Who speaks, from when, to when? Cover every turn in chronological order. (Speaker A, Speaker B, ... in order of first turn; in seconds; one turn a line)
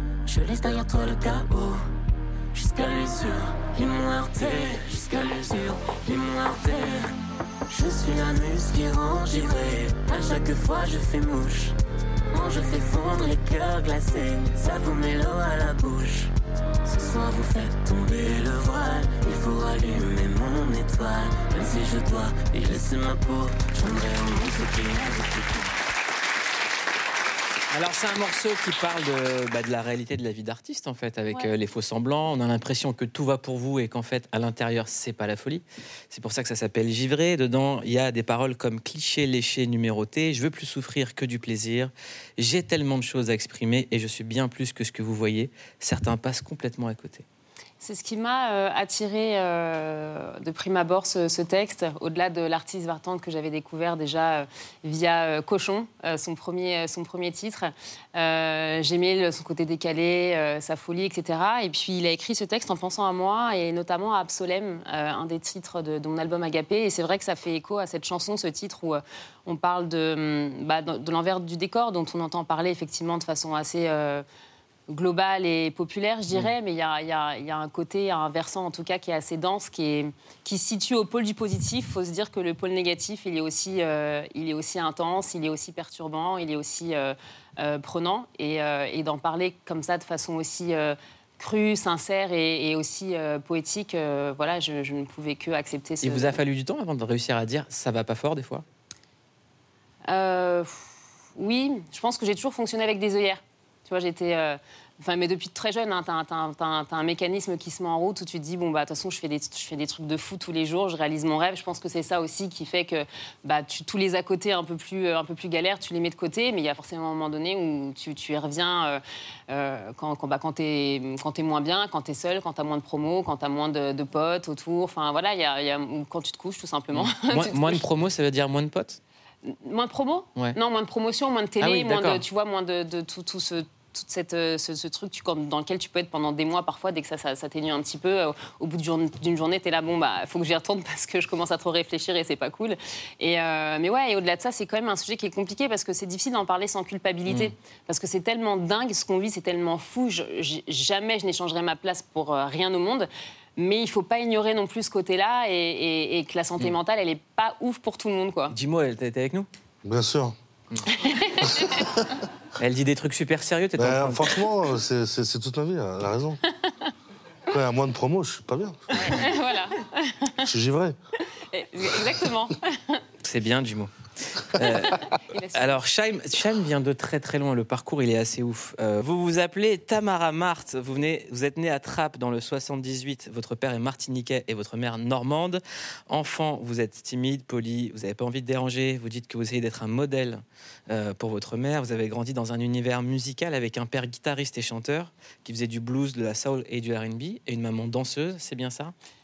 Speaker A: 0.2-1.8
Speaker A: 2.5-7.1
Speaker A: 7.7-11.8
Speaker A: 12.3-16.3
Speaker A: 16.8-25.7
Speaker B: 27.7-47.2
Speaker C: 47.8-74.2
Speaker C: 74.9-96.4
Speaker B: 96.0-98.6
Speaker C: 100.1-127.8
Speaker B: 126.9-129.0
Speaker C: 129.4-158.6
Speaker B: 131.6-132.2
Speaker B: 158.5-159.5
Speaker D: 159.8-160.3
Speaker C: 160.9-161.9
Speaker D: 161.6-161.9
Speaker B: 162.6-164.3
Speaker D: 163.8-166.4
Speaker D: 167.5-169.2
Speaker C: 168.9-170.4
Speaker D: 170.4-170.9
Speaker C: 171.3-173.0
Speaker B: 173.2-198.9
Speaker C: 174.6-175.8